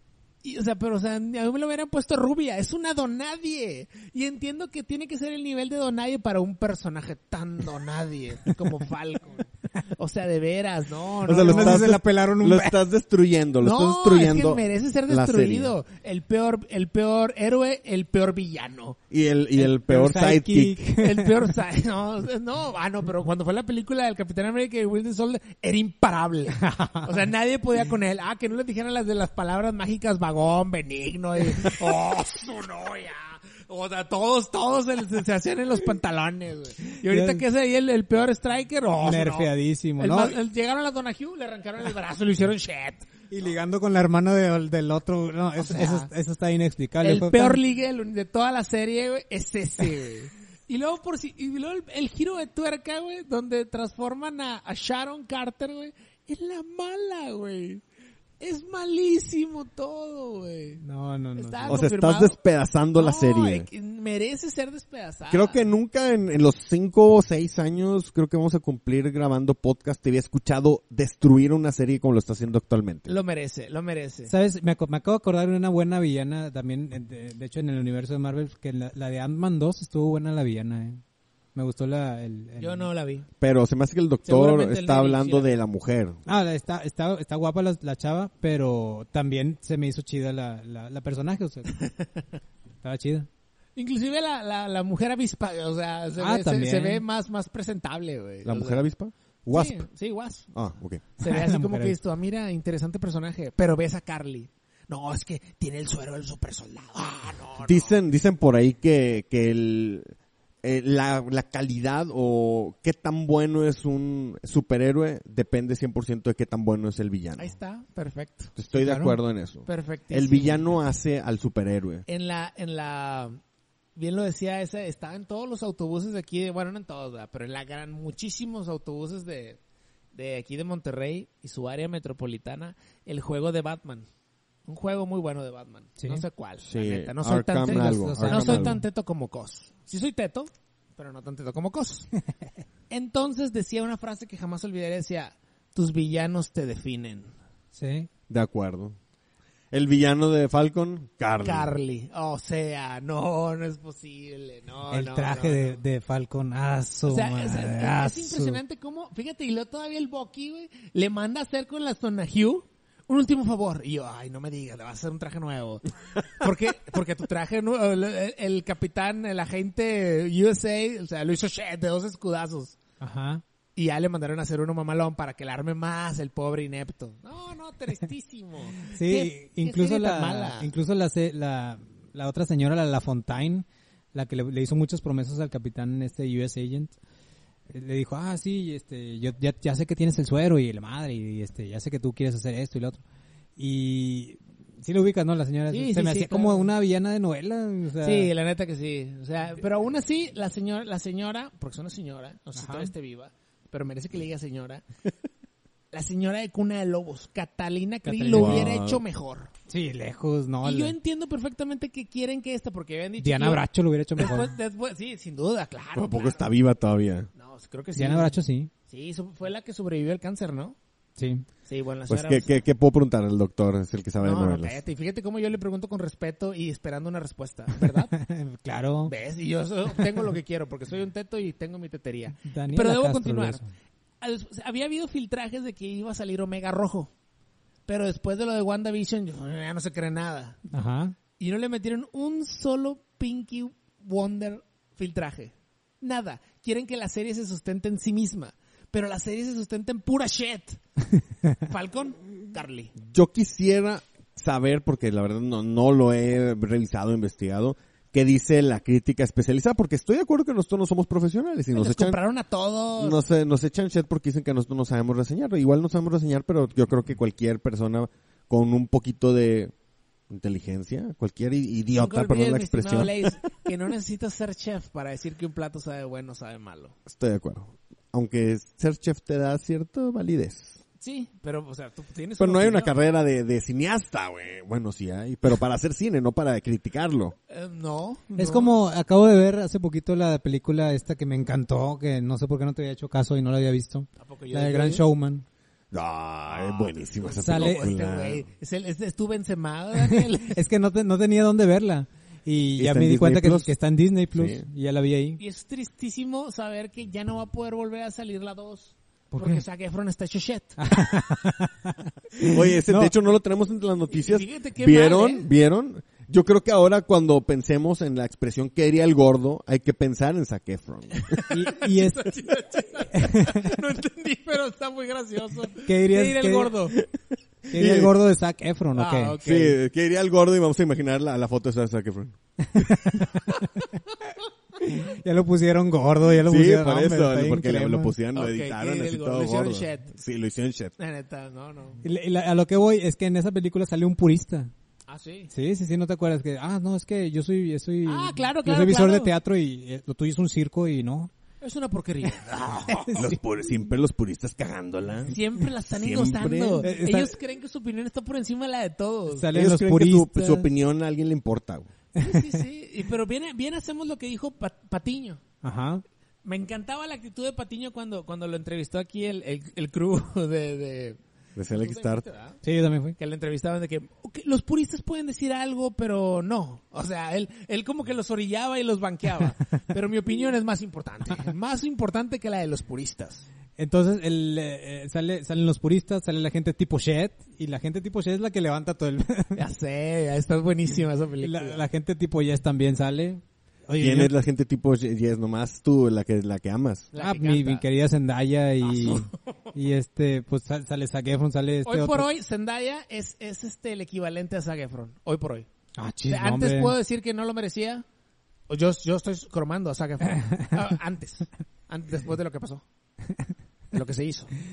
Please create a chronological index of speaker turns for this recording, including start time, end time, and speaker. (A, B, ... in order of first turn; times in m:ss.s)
0:00.4-0:11.9 A
0:11.2-0:15.7 B
0:11.3-0:12.8 C
0:13.6-0:19.0 A
0:19.1-0:20.8 B
0:19.6-0:21.5 C
0:21.0-0:43.1 A
0:26.6-0:27.1 C
0:37.0-0:37.4 C
0:39.0-0:40.4 C
0:43.3-0:47.6 C
0:45.6-0:46.1 A
0:47.0-0:57.8 A
0:58.4-1:00.8 A
1:00.8-1:01.8 C
1:01.4-1:02.4 A
1:01.7-1:03.7 B
1:03.0-1:05.6 A
1:05.3-1:13.1 B
1:13.0-1:14.3 A
1:14.3-1:21.0 C
1:21.5-1:22.9 C
1:22.6-1:23.3 A
1:23.4-1:26.2 B
1:24.2-1:25.5 A
1:26.2-1:31.7 C
1:31.7-1:32.0 A
1:32.8-1:33.3 C
1:33.8-1:38.8 A
1:36.2-1:37.0 C
1:38.4-1:39.8 B
1:39.5-1:40.5 A
1:40.5-1:41.0 B
1:41.2-1:48.0 A
1:41.2-1:42.0 C
1:47.6-1:57.5 B
1:57.4-1:58.5 A
1:58.6-2:02.0 B
1:58.7-1:59.2 C
1:59.7-2:00.7 A
2:02.1-2:03.4 A
2:04.0-2:09.6 A
2:10.1-2:14.0 A
2:14.7-2:22.1 A
2:16.0-2:16.2 C
2:16.6-2:18.8 B
2:17.6-2:18.8 C
2:22.9-2:27.3 A
2:27.7-2:28.1 C
2:28.3-2:29.0 B
2:29.7-2:31.7 B
2:31.4-2:35.8 A
2:34.9-2:38.6 C
2:37.1-2:52.8 A
2:53.0-2:53.4 C
2:53.8-3:00.7 A
2:58.9-3:06.9 C
3:07.7-3:13.0 C
3:13.6-3:18.3 C
3:15.7-3:16.7 A
3:18.0-3:24.8 A
3:22.5-3:22.9 C
3:25.9-3:29.5 A
3:28.0-3:28.7 C
3:28.3-3:29.0 B
3:29.7-3:30.9 C
3:30.6-3:33.6 A
3:33.2-3:34.5 C
3:34.2-3:36.5 A
3:36.0-3:37.3 B
3:37.4-3:38.3 A
3:38.0-3:38.7 C
3:38.9-3:40.8 A
3:41.2-3:41.4 C
3:41.6-3:42.5 A
3:42.1-3:44.8 B
3:44.2-3:48.1 A
3:48.1-3:49.1 C
3:49.0-3:53.6 A
3:52.4-3:53.7 C
3:54.2-3:57.1 A
3:57.9-4:00.6 A
4:00.7-4:01.2 C
4:01.4-4:10.8 A
4:11.6-4:13.0 A
4:13.0-4:22.2 B
4:21.7-4:23.2 A
4:23.0-4:29.7 B
4:30.3-4:33.3 B
4:32.0-4:36.9 A
4:37.0-4:40.8 B
4:41.0-4:42.9 A
4:42.4-4:47.3 B
4:47.5-4:48.7 A
4:48.4-4:55.4 C
4:54.2-4:55.0 A
4:55.9-4:58.4 B
4:56.5-5:00.6 A
4:57.4-4:57.9 C
5:00.0-5:05.4 C
5:02.8-5:03.7 B
5:04.3-5:04.6 B
5:05.4-5:10.8 A
5:09.3-5:09.6 C
5:10.8-5:13.1 C
5:12.4-5:21.4 B
5:14.1-5:15.5 A
5:21.1-5:27.0 A
5:21.5-5:22.3 C
5:23.1-5:23.7 C
5:25.8-5:26.7 C
5:27.7-5:28.1 B
5:27.7-5:29.4 C
5:28.9-5:29.8 A
5:29.4-5:32.9 B
5:32.7-5:33.6 C
5:34.8-5:38.1 C
5:36.4-5:40.9 B
5:38.3-5:40.1 A
5:41.0-5:42.0 A
5:42.0-5:44.7 C
5:45.1-5:45.5 A
5:45.5-5:51.3 C
5:48.0-5:49.3 A
5:51.6-5:53.2 A
5:53.0-5:53.3 C
5:53.1-5:55.4 B
5:55.3-5:59.5 A
5:55.9-5:56.8 B
5:56.8-5:57.3 C
5:59.3-6:00.7 C
5:59.5-6:01.9 B
6:02.2-6:05.4 A
6:02.2-6:02.5 C
6:05.6-6:06.0 C
6:06.4-6:12.6 A
6:11.6-6:12.2 B
6:12.6-6:13.2 C
6:13.2-6:23.5 A
6:23.8-6:29.6 C
6:29.6-6:31.8 A
6:31.4-6:34.3 C
6:34.0-6:37.1 B
6:37.1-6:37.8 A
6:37.2-6:42.3 C
6:38.8-6:39.4 A
6:41.8-6:45.7 A
6:46.0-6:46.9 C
6:46.3-6:48.0 A
6:48.7-6:52.8 A
6:53.9-6:54.5 A